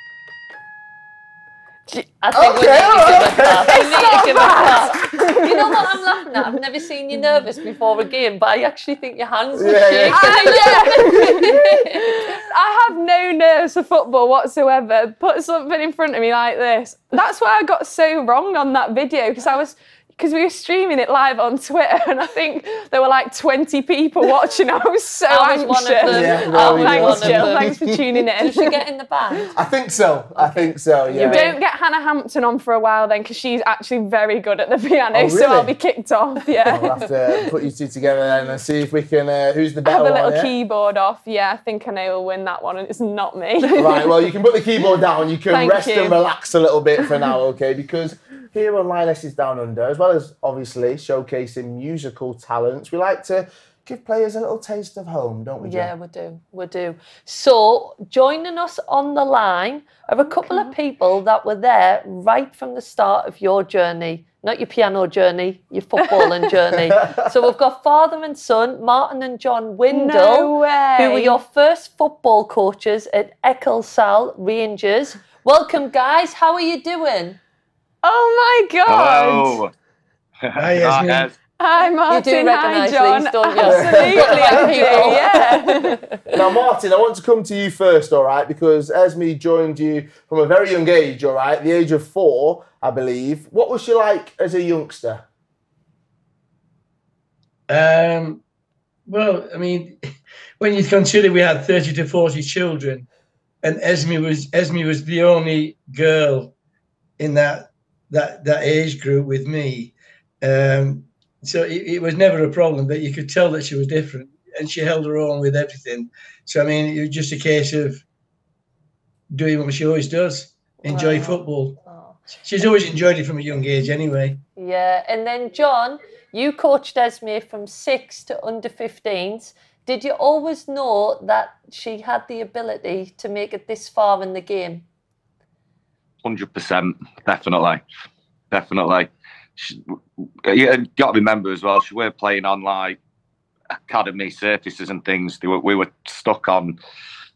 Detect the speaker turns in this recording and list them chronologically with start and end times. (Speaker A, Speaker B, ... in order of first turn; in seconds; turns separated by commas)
Speaker A: 2.2-12.3, Speaker B: 2.3-4.1, Speaker C: 3.7-5.9, Speaker B: 9.5-11.3, Speaker C: 10.1-28.8, Speaker A: 25.3-27.8, Speaker B: 26.1-28.0, Speaker A: 28.4-29.5, Speaker B: 29.5-31.5, Speaker A: 30.4-31.6, Speaker C: 31.1-37.1, Speaker B: 35.1-35.7, Speaker B: 36.7-40.5, Speaker C: 39.8-44.3, Speaker B: 43.7-55.9, Speaker C: 45.5-46.2, Speaker A: 55.6-77.4, Speaker C: 60.4-60.7, Speaker C: 69.9-71.4, Speaker C: 78.0-79.6, Speaker D: 78.9-79.7, Speaker D: 80.4-81.3, Speaker E: 80.5-81.3, Speaker C: 81.6-86.0, Speaker A: 82.1-86.4, Speaker B: 83.6-85.2, Speaker B: 86.3-95.2, Speaker E: 97.7-98.4, Speaker E: 99.0-100.0, Speaker E: 100.6-103.0, Speaker E: 103.6-106.5, Speaker E: 107.2-118.0, Speaker E: 119.3-121.8, Speaker A: 120.8-122.2, Speaker E: 122.4-124.4, Speaker A: 124.5-134.8, Speaker D: 136.2-137.8, Speaker D: 138.5-139.8, Speaker D: 140.4-143.0, Speaker D: 143.9-146.8